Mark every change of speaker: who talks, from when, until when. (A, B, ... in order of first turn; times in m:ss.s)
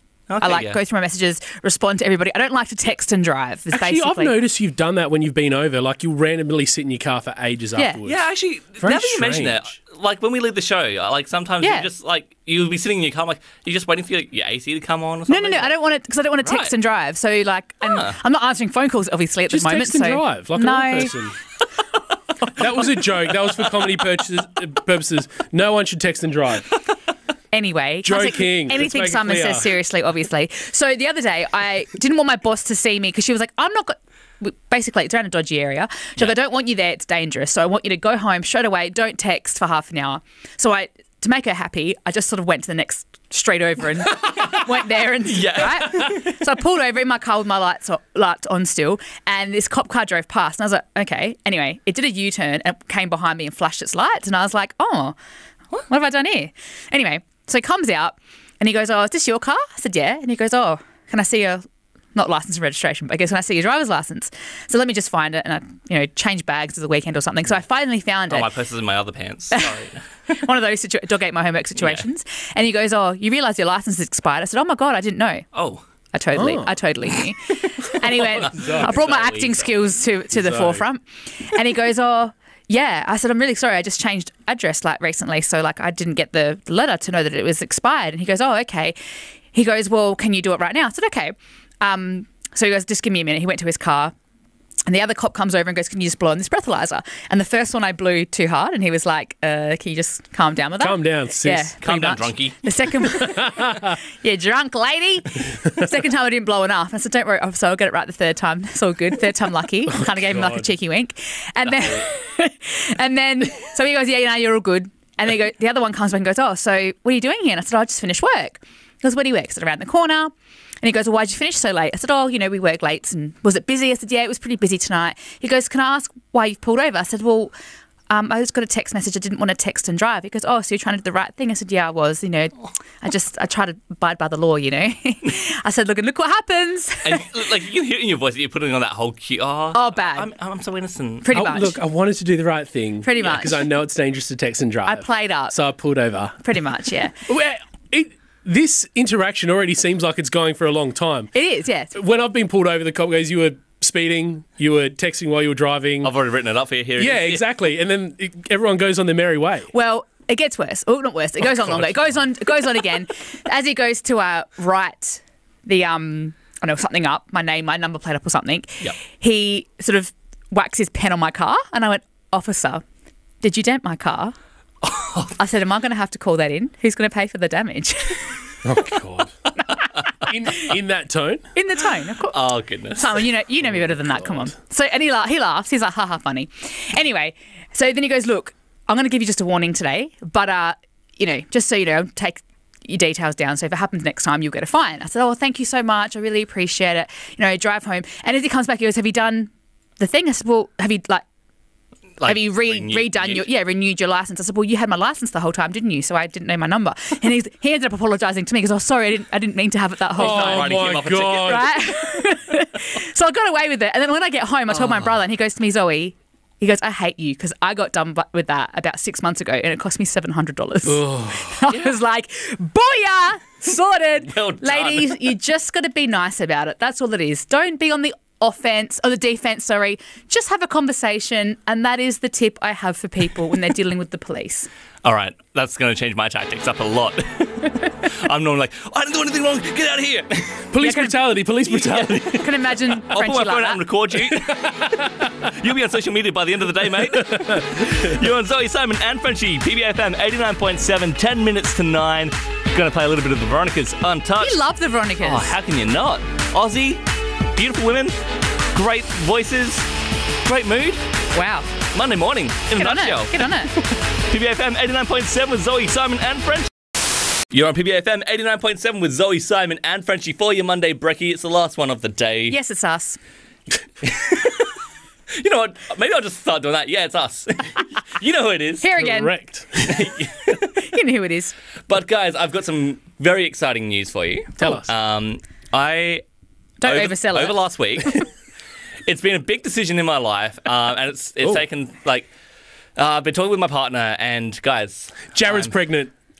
0:00.3-0:00.8 A
0:00.4-0:04.4 B
0:03.7-0:08.2 C
0:08.0-0:15.8 A
0:08.8-0:09.6 C
0:11.6-0:11.9 B
0:15.3-0:21.1 B
0:16.4-0:16.7 A
0:17.8-0:18.1 A
0:19.5-0:21.4 C
0:22.5-0:26.8 C
0:27.5-0:55.2 B
0:28.0-0:29.7 C
0:44.2-0:44.6 A
0:45.2-0:46.4 A
0:55.9-1:01.6 B
1:02.1-1:08.5 B
1:08.3-1:10.3 A
1:10.3-1:15.4 B
1:15.5-1:15.8 A
1:16.1-1:29.0 B
1:16.3-1:16.7 C
1:18.3-1:19.7 A
1:18.4-1:18.9 C
1:20.3-1:20.8 C
1:29.5-1:34.1 B
1:34.8-2:07.5 B
1:40.8-1:41.7 C
1:41.8-1:42.6 A
1:43.2-1:44.0 C
1:49.9-1:50.7 C
2:08.1-2:17.3 B
2:17.0-2:21.3 A
2:19.7-2:20.3 B
2:21.2-2:21.8 B
2:21.3-2:26.4 C
2:23.0-2:23.6 B
2:24.8-2:25.5 B
2:26.4-2:27.1 B
2:27.3-2:31.3 C
2:31.3-2:31.9 B
2:31.9-2:36.1 C
2:36.0-2:37.4 A
2:37.0-2:39.7 C
2:39.7-2:52.8 B
2:53.4-2:54.3 B
2:54.8-2:55.3 A
2:55.4-2:58.3 B
2:58.6-2:59.4 C
3:00.2-3:01.5 C
3:01.5-3:02.4 B
3:02.3-3:03.2 A
3:03.0-3:21.2 B
3:04.0-3:04.5 C
3:22.2-3:23.4 A
3:22.2-3:54.7 B
3:30.1-3:31.7 A
3:30.2-3:31.7 C
3:34.7-3:35.1 A
3:40.8-3:41.6 C
3:41.7-3:42.0 A
3:44.2-3:45.2 A
3:55.0-4:00.6 A
4:00.7-4:02.5 C
4:00.8-4:01.4 B
4:01.7-4:14.6 A
4:02.3-4:03.8 B
4:04.3-4:05.5 C
4:07.1-4:08.1 C
4:14.4-4:15.5 B
4:15.2-4:18.2 A
4:18.7-4:19.9 A
4:20.4-4:21.0 A
4:21.3-4:21.7 B
4:21.9-4:26.7 A
4:22.8-4:23.7 B
4:27.5-4:32.6 A
4:32.5-4:33.2 B
4:34.0-4:34.7 A
4:35.3-4:38.9 A
4:38.8-4:39.3 B
4:39.0-4:40.1 C
4:39.8-4:40.7 A
4:40.5-4:41.5 B
4:41.9-4:46.2 A
4:44.6-4:44.9 C
4:46.8-4:47.6 B
4:46.8-4:48.3 A
4:49.0-4:52.3 A
4:53.0-4:55.7 A
4:55.3-4:56.1 C